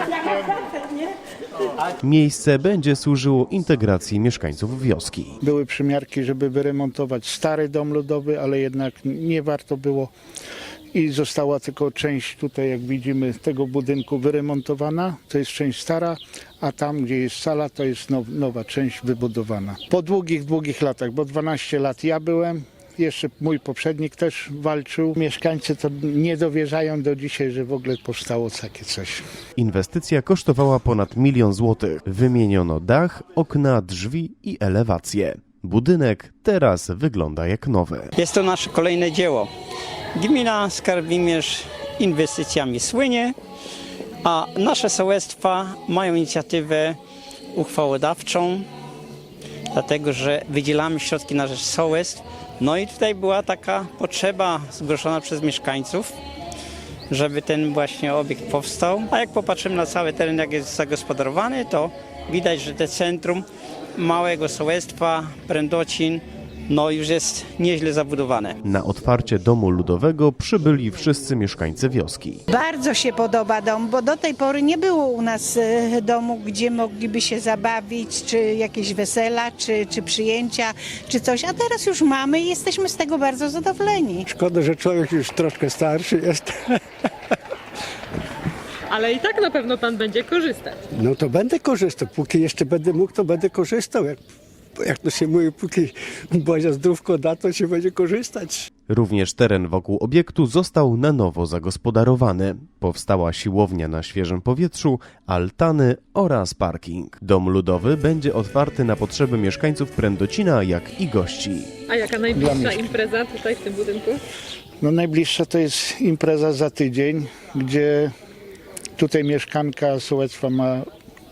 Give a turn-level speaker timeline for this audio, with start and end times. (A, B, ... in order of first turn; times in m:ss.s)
0:02.0-0:05.4 A
0:05.4-0:10.1 B
0:10.9-0:29.2 B
0:29.6-0:38.1 A
0:38.2-0:39.5 C
0:40.2-0:43.4 C
0:44.2-0:47.0 C
0:47.5-0:48.7 C
0:49.7-0:56.2 C
0:57.1-1:08.6 C
1:08.6-1:12.4 A
1:12.5-1:24.3 D
1:24.3-1:26.8 E
1:28.9-1:30.8 F
1:30.9-1:34.2 E
1:34.8-1:38.7 E
1:38.9-1:51.7 A
1:51.9-1:54.2 F
1:52.3-1:52.9 B
1:54.8-1:58.1 B
1:59.0-2:00.9 B